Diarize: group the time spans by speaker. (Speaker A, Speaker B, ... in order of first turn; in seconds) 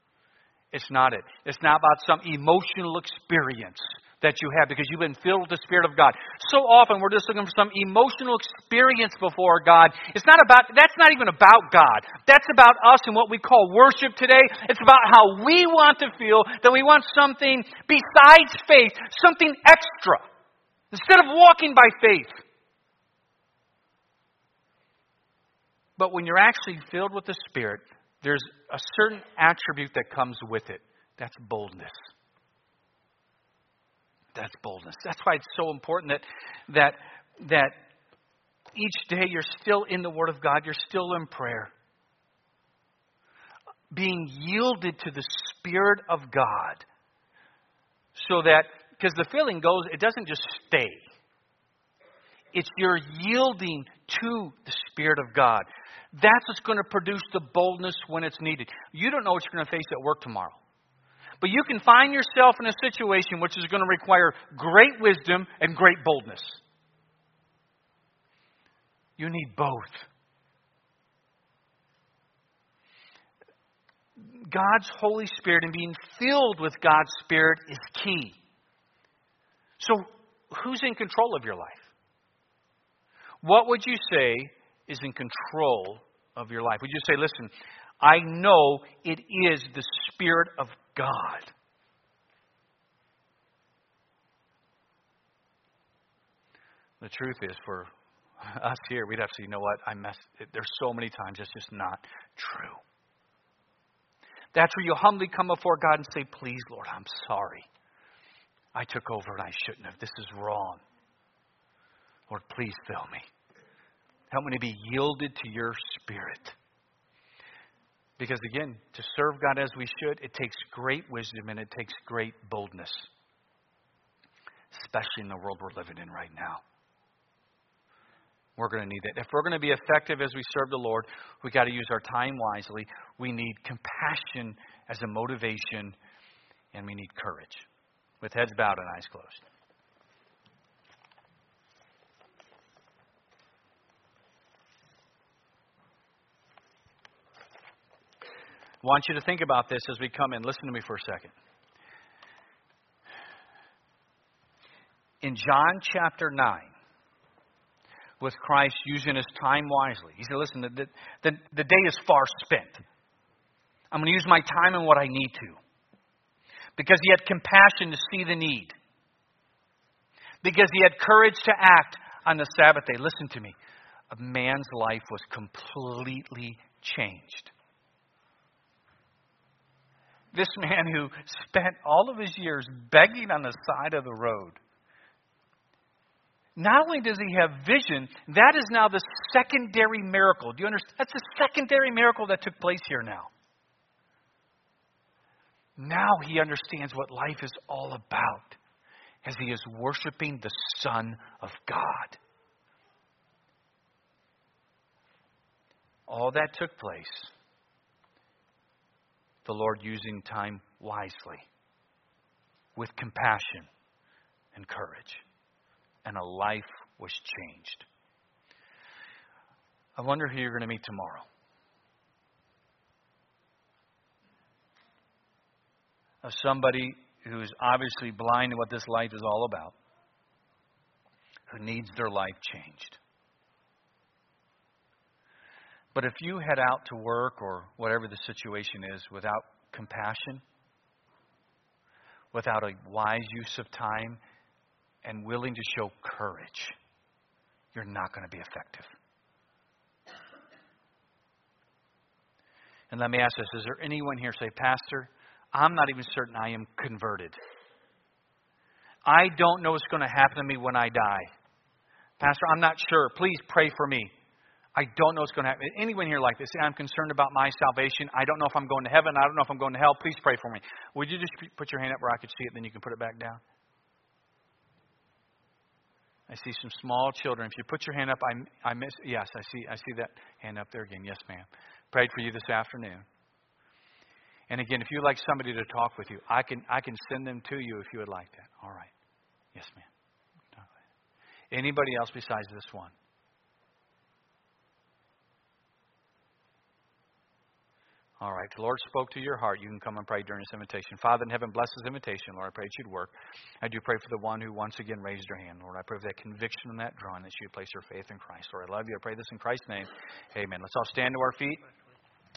Speaker A: 0.7-20.2, 20.9-22.4, 26.0-32.0, 34.3-37.7, 38.7-41.7, 43.9-46.9, 48.1-51.1, 52.5-60.6, 61.4-66.6, 69.2-70.1, 74.2-78.4, 79.8-81.9, 83.4-91.5, 97.0-97.9, 98.4-102.8, 104.5-107.7, 108.7-110.8, 112.3-113.3, 114.3-116.6, 118.2-123.1, 124.7-126.6, 128.6-136.0, 136.7-137.7, 138.2-139.4, 148.8-151.3, 155.2-156.7, 158.2-162.8, 163.9-165.6, 166.8-168.7, 170.4-173.5, 174.1-177.5, 180.3-184.6, 186.6-193.3, 195.8-198.6, 199.2-202.2, 206.1-207.3, 209.4-211.4, 212.8-213.7, 214.5-215.2, 216.0-217.8, 219.9-221.3, 226.2-229.7, 231.5-233.0, 235.9-240.4, 242.3-244.2, 245.0-246.7, 247.7-248.9, 252.9-257.4, 259.1-261.3, 262.2-264.1, 264.7-273.4, 276.3-283.0, 284.5-288.9, 289.5-289.9, 291.5-292.9, 298.2-311.6